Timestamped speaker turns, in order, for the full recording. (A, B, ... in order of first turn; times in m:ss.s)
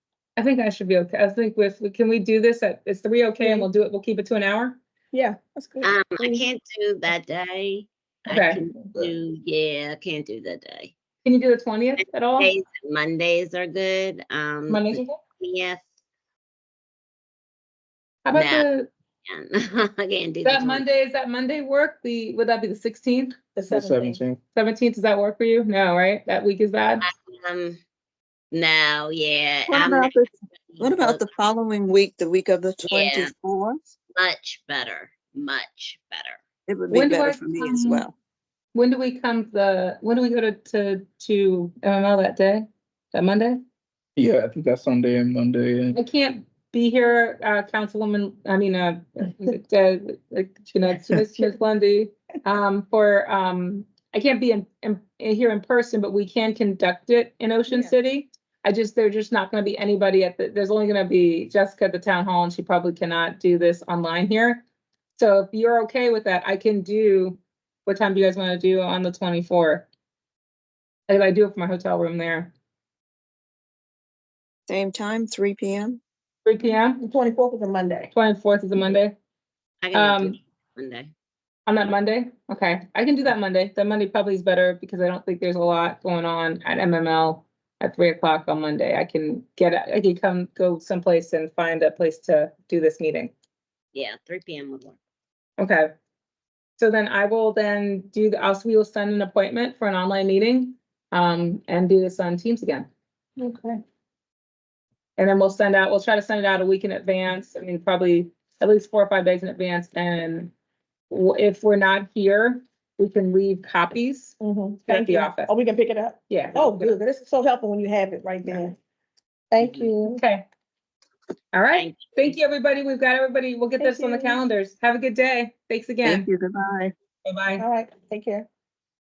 0:00.4-0:04.8 A
0:03.4-0:03.7 B
0:05.1-0:06.5 B
0:05.8-0:10.9 C
0:08.3-0:08.6 A
0:11.2-0:12.5 A
0:12.4-0:15.8 C
0:14.7-0:15.2 A
0:18.3-0:18.9 A
0:18.3-0:18.7 C
0:19.3-0:20.8 C
0:20.4-0:23.3 A
0:23.6-0:24.2 B
0:23.7-0:24.4 D
0:24.5-0:27.1 A
0:27.0-0:27.8 C
0:28.5-0:31.3 C
0:29.7-0:33.8 E
0:32.8-0:33.3 C
0:34.2-0:36.4 C
0:36.7-0:38.1 E
0:36.9-0:38.1 A
0:38.7-0:43.6 A
0:44.2-0:46.0 D
0:45.9-1:04.6 A
1:05.2-1:09.9 A
1:11.1-1:12.5 A
1:14.7-1:16.0 E
1:16.4-1:17.0 A
1:17.0-1:18.1 B
1:18.1-1:19.2 A
1:19.8-1:21.1 C
1:19.9-1:20.4 A
1:21.7-1:33.3 A
1:33.9-1:35.0 C
1:35.6-1:35.9 A
1:36.8-1:42.9 A
1:43.4-1:43.8 B
1:45.2-1:50.5 A
1:51.1-1:55.5 A
1:54.4-1:58.8 B
1:56.3-1:56.9 A
1:59.5-2:00.2 B
2:00.1-2:00.4 A
2:01.5-2:06.3 A
2:01.8-2:02.4 C
2:03.8-2:04.4 B
2:06.0-2:06.9 E
2:07.2-2:07.7 A
2:07.6-2:08.5 B